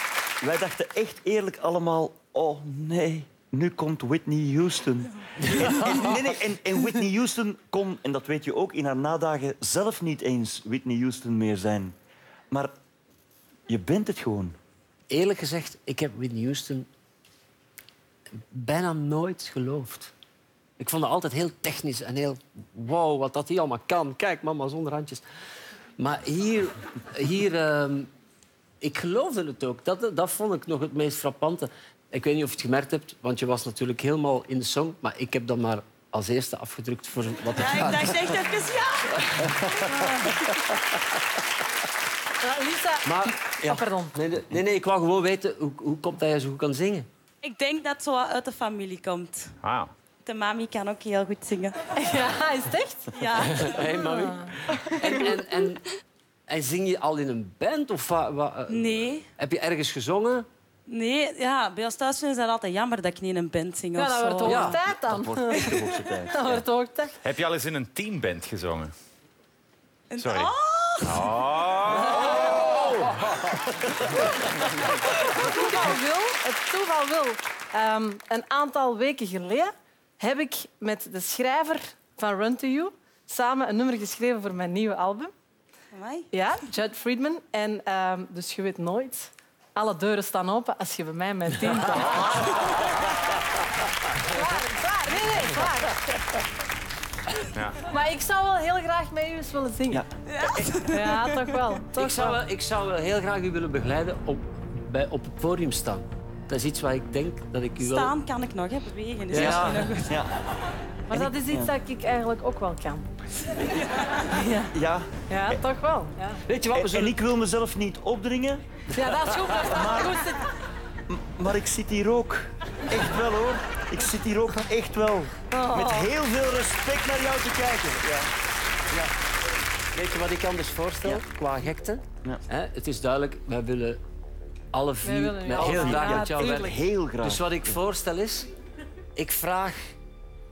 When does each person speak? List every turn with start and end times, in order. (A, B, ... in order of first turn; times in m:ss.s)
0:00.4-0:11.9 A
0:13.7-0:14.6 A
0:15.1-0:16.9 B
0:18.3-0:20.1 B
0:20.8-0:25.2 B
0:26.0-0:28.1 B
0:28.8-0:38.3 B
0:37.5-0:39.5 C
0:39.5-0:39.9 B
0:39.9-0:40.2 D
0:42.4-0:44.1 D
0:43.0-0:47.1 B
0:47.4-0:49.5 C
0:49.6-0:49.9 E
0:50.2-0:51.8 C
0:52.0-0:53.1 D
0:53.1-0:54.0 C
0:53.6-0:55.8 B
0:53.7-0:54.5 D
0:56.5-1:00.5 B
0:58.7-0:59.2 C
1:00.9-1:04.8 C
1:04.0-1:07.1 D
1:04.4-1:04.8 B
1:04.8-1:06.6 A
1:07.2-1:08.9 E
1:10.1-1:11.2 C
1:10.2-1:12.7 E
1:15.0-1:25.3 D
1:25.9-1:26.3 C
1:26.3-1:32.6 D
1:34.2-1:36.0 D
1:37.5-1:37.8 E
1:37.9-1:40.0 D
1:39.9-1:40.7 A
1:40.3-1:41.4 C
1:40.8-1:42.4 D
1:41.9-1:48.1 B
1:47.8-1:50.1 C
1:49.3-1:50.0 B
1:49.3-1:50.3 A
1:51.1-1:51.7 A
1:51.1-1:53.1 D
1:54.2-1:54.7 D
1:54.7-1:55.6 A
1:55.3-1:56.4 D
1:56.4-1:57.2 B
1:56.7-1:58.6 A
1:58.9-1:59.7 B
1:59.0-2:00.5 D
1:59.7-2:00.2 A
2:01.1-2:08.3 A
2:05.5-2:06.1 C
2:09.9-2:14.0 B
2:14.7-2:18.5 B
2:15.0-2:16.8 D
2:15.6-2:17.8 A
2:19.2-2:19.9 B